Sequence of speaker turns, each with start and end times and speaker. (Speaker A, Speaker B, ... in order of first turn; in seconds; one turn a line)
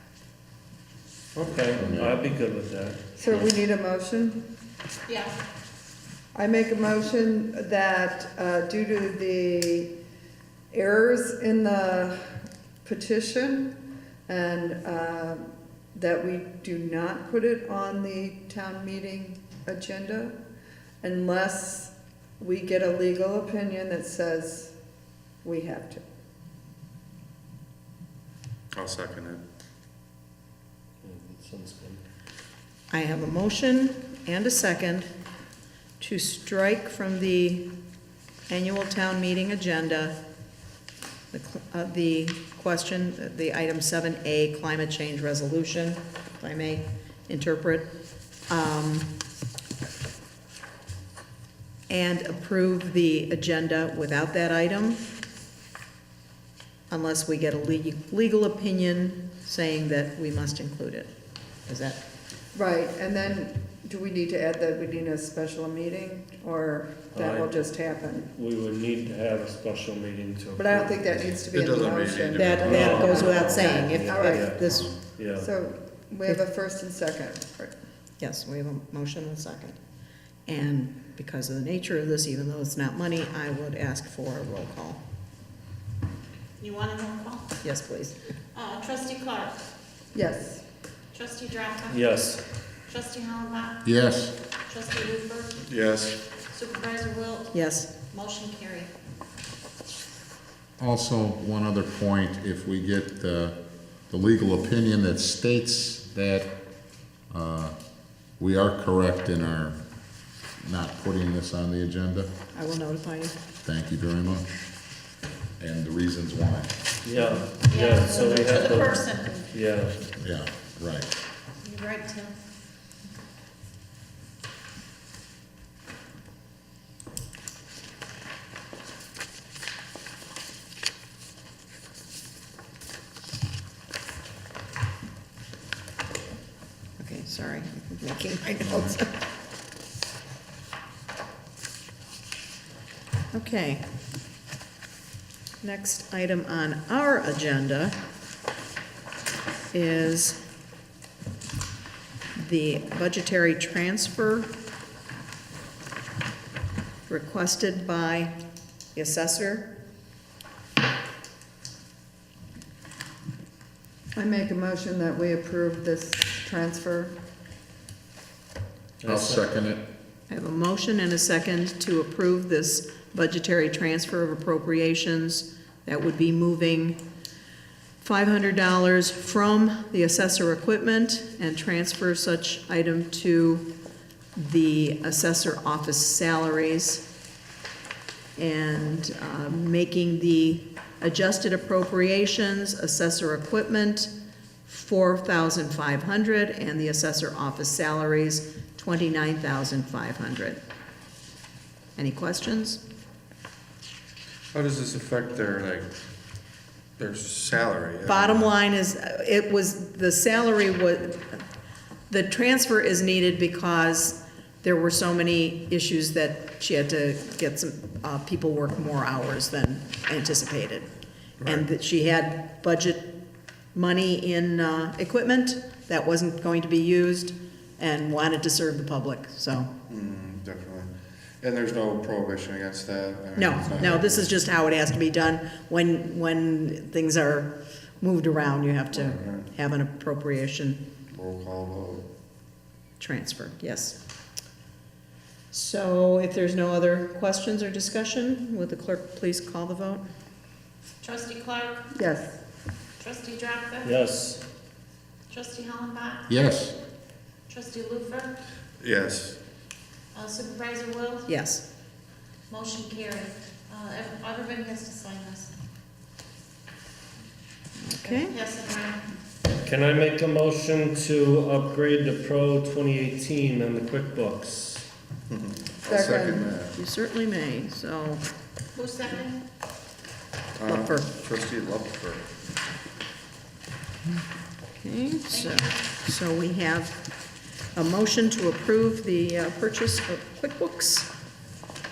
Speaker A: 1.4-3.2
Speaker B: 1.7-2.2
Speaker C: 3.2-4.5
Speaker D: 5.1-5.4
Speaker C: 6.3-9.9
Speaker C: 10.7-12.2
Speaker C: 12.8-13.8
Speaker C: 14.3-20.4
Speaker C: 21.0-24.7
Speaker C: 25.4-26.0
Speaker E: 28.7-29.4
Speaker A: 31.0-32.0
Speaker F: 32.9-35.1
Speaker F: 36.0-37.7
Speaker F: 38.5-40.2
Speaker F: 41.3-47.9
Speaker F: 48.5-49.1
Speaker F: 51.9-55.0
Speaker F: 56.9-61.1
Speaker F: 61.7-62.0
Speaker C: 62.5-68.3
Speaker A: 67.1-71.4
Speaker C: 70.6-74.7
Speaker E: 71.5-75.0
Speaker F: 72.3-74.9
Speaker A: 72.6-75.5
Speaker C: 75.3-77.7
Speaker F: 78.2-79.8
Speaker F: 80.5-85.0
Speaker D: 86.6-87.6
Speaker F: 87.6-88.2
Speaker D: 88.5-89.6
Speaker C: 90.1-90.6
Speaker D: 91.1-92.1
Speaker A: 91.9-92.4
Speaker D: 92.8-93.8
Speaker B: 93.8-94.3
Speaker D: 94.7-95.7
Speaker E: 95.6-96.2
Speaker D: 96.5-98.9
Speaker F: 97.5-97.9
Speaker B: 100.8-103.6
Speaker B: 104.1-106.5
Speaker B: 107.3-107.8
Speaker B: 108.4-109.8
Speaker B: 110.6-112.3
Speaker F: 112.5-113.4
Speaker B: 113.6-114.5
Speaker B: 115.6-116.8
Speaker A: 117.0-120.0
Speaker D: 117.6-119.5
Speaker B: 120.2-121.1
Speaker D: 121.6-122.4
Speaker F: 137.0-139.2
Speaker B: 138.7-138.9
Speaker F: 143.3-143.8
Speaker F: 145.6-148.0
Speaker F: 149.7-150.4
Speaker F: 152.3-154.5
Speaker F: 157.1-158.4
Speaker F: 158.9-159.7
Speaker C: 164.2-167.1
Speaker A: 169.0-169.4
Speaker B: 169.1-169.8
Speaker F: 170.3-177.0
Speaker F: 178.0-183.7
Speaker F: 184.4-187.1
Speaker F: 188.4-194.1
Speaker F: 194.7-200.6
Speaker F: 202.0-202.8
Speaker E: 204.5-205.9
Speaker E: 207.0-208.5
Speaker F: 208.1-211.4
Speaker F: 212.1-220.9
Speaker E: 221.4-221.7
Speaker F: 221.4-223.2
Speaker F: 223.7-229.7
Speaker E: 229.9-234.3
Speaker F: 233.4-240.8
Speaker E: 238.9-239.5
Speaker E: 241.1-242.1
Speaker F: 243.0-244.0
Speaker F: 245.5-250.0
Speaker D: 251.0-251.9
Speaker C: 251.9-252.4
Speaker D: 253.0-253.9
Speaker A: 253.8-254.4
Speaker D: 255.3-256.3
Speaker B: 256.3-256.8
Speaker D: 257.5-258.4
Speaker E: 258.8-259.4
Speaker D: 260.1-261.3
Speaker F: 261.3-261.6
Speaker D: 262.5-265.5
Speaker F: 267.8-268.4
Speaker D: 268.0-269.1
Speaker A: 269.6-274.9
Speaker E: 275.3-276.8
Speaker C: 275.9-276.6
Speaker F: 276.7-278.2
Speaker D: 278.8-279.4
Speaker E: 280.6-282.3
Speaker F: 280.6-281.1
Speaker F: 284.8-287.1
Speaker D: 285.3-285.8
Speaker F: 287.7-291.1